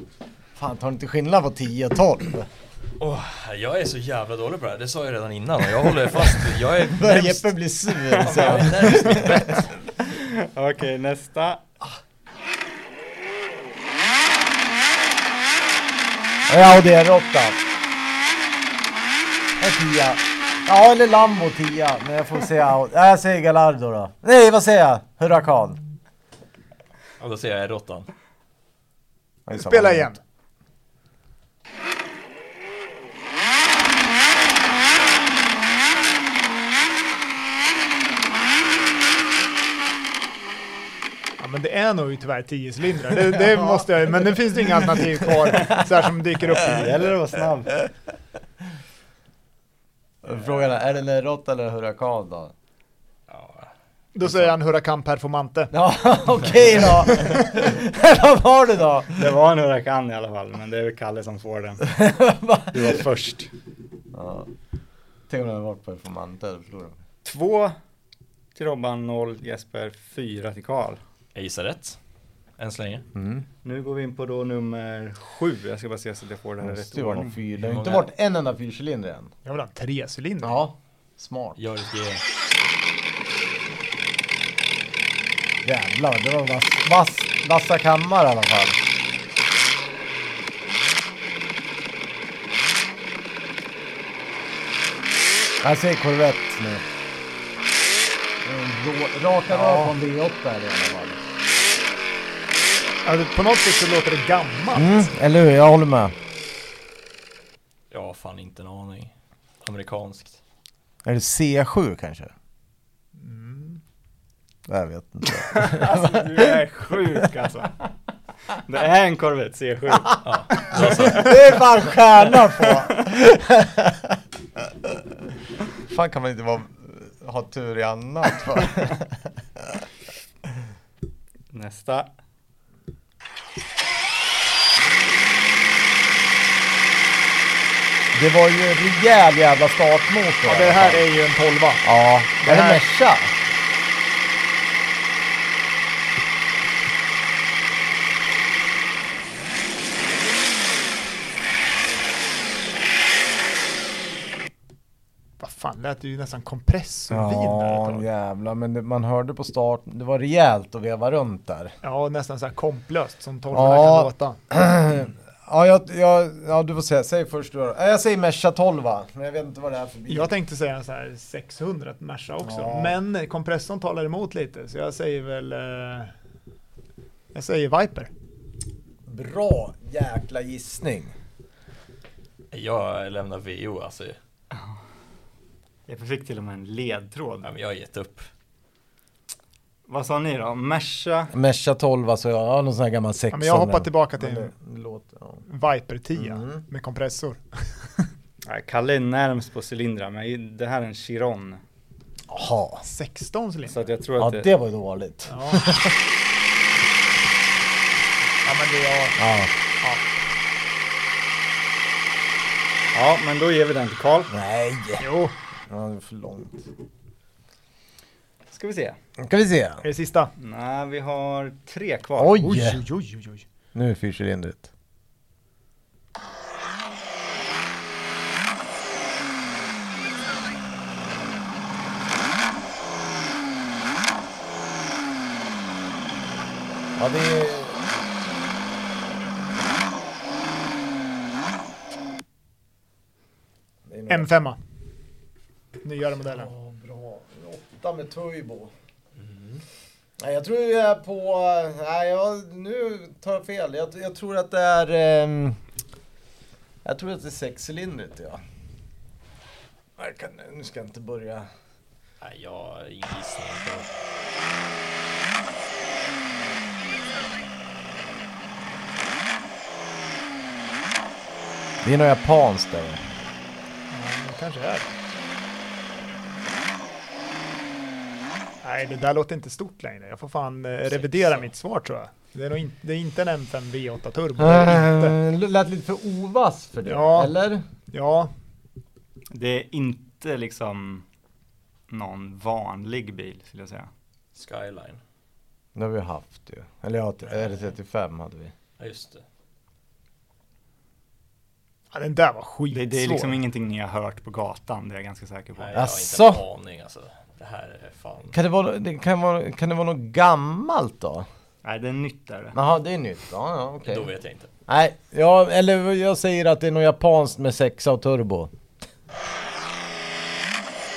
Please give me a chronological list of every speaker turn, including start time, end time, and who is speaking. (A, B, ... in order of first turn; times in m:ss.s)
0:00.6-0:02.5 A
0:03.0-0:07.5 B
0:06.8-0:09.6 A
0:08.1-0:09.7 B
0:08.1-0:09.2 C
0:10.0-0:11.6 C
0:16.5-0:17.6 A
0:19.6-0:25.8 A
0:27.2-0:28.1 B
0:29.5-0:30.1 A
0:29.5-0:30.2 D
0:41.4-0:46.9 D
0:43.3-0:43.8 A
0:44.9-0:45.7 A
0:46.5-0:47.8 C
0:50.2-0:52.5 A
0:53.3-0:53.7 B
0:54.1-0:55.7 D
0:55.7-0:59.2 A
0:59.1-1:01.9 C
1:01.8-1:03.0 A
1:02.7-1:03.5 C
1:04.1-1:04.5 A
1:05.3-1:07.0 A
1:07.2-1:07.8 C
1:08.5-1:11.0 C
1:11.3-1:12.0 B
1:12.6-1:13.0 B
1:13.1-1:13.4 A
1:13.6-1:17.4 C
1:16.6-1:19.3 A
1:17.6-1:18.1 B
1:19.4-1:20.6 D
1:20.4-1:21.6 A
1:21.6-1:22.2 B
1:25.6-1:28.8 A
1:35.6-1:36.8 A
1:38.4-1:41.2 A
1:39.5-1:39.9 D
1:43.0-1:45.1 D
1:44.7-1:46.1 A
1:47.9-1:49.1 B
1:49.6-1:50.4 B
1:51.0-1:52.3 A
1:53.2-1:53.8 D
1:54.7-1:57.2 A
1:55.5-1:57.7 C
1:58.6-2:01.3 C
2:00.2-2:01.4 B
2:00.8-2:04.2 A
2:02.6-2:02.9 C
2:05.9-2:09.8 A
2:11.5-2:12.1 C
2:18.1-2:21.0 A
2:20.4-2:21.8 D
2:21.8-2:23.3 A
2:22.4-2:22.8 D
2:35.4-2:38.0 D
2:37.1-2:41.7 A
2:41.8-2:44.4 D
2:43.5-2:50.3 A
2:50.1-2:56.1 D
2:52.4-2:53.0 A
2:57.3-2:58.1 D
2:59.0-3:01.1 A
3:02.5-3:04.2 B
3:05.9-3:07.5 C
3:07.4-3:08.3 B
3:09.9-3:11.3 C
3:11.3-3:15.4 A
3:13.3-3:14.5 D
3:15.4-3:18.1 D
3:16.1-3:16.6 A
3:18.4-3:21.6 C
3:22.3-3:22.8 A
3:22.8-3:23.8 D
3:23.7-3:24.5 C
3:24.2-3:26.0 A
3:25.3-3:25.6 D
3:28.4-3:29.2 D
3:29.2-3:29.5 A
3:29.8-3:30.1 D
3:32.9-3:34.3 C
3:34.3-3:35.1 A
3:35.0-3:35.3 D
3:35.7-3:36.7 A
3:38.5-3:39.0 C
3:39.2-3:39.8 A
3:39.8-3:40.3 D
3:40.4-3:42.4 C
3:42.2-3:42.8 A
3:42.4-3:43.4 D
3:43.7-3:44.7 A
3:57.0-3:57.8 A
4:03.8-4:04.3 A
4:04.1-4:04.6 D
4:05.8-4:06.5 D
4:06.2-4:08.7 A
4:09.2-4:09.6 B
4:10.2-4:15.6 A
4:16.8-4:18.4 A
4:20.0-4:21.5 A
4:22.2-4:23.9 B
4:31.8-4:33.0 A
4:33.9-4:34.9 D
4:38.6-4:45.2 D
4:40.9-4:41.4 B
4:44.4-4:47.6 A
4:46.8-4:47.3 D
4:47.9-4:48.3 D
4:49.3-4:51.0 C
4:51.9-4:53.9 C
4:54.3-4:55.0 B
4:55.7-4:58.5 A
4:58.8-4:59.2 B
5:01.9-5:03.4 D
5:02.7-5:05.8 C
5:05.6-5:08.4 B
5:05.7-5:06.4 A
5:08.3-5:11.3 A
5:11.6-5:12.6 C
5:12.5-5:14.1 A
5:13.8-5:14.5 B
5:14.7-5:18.5 A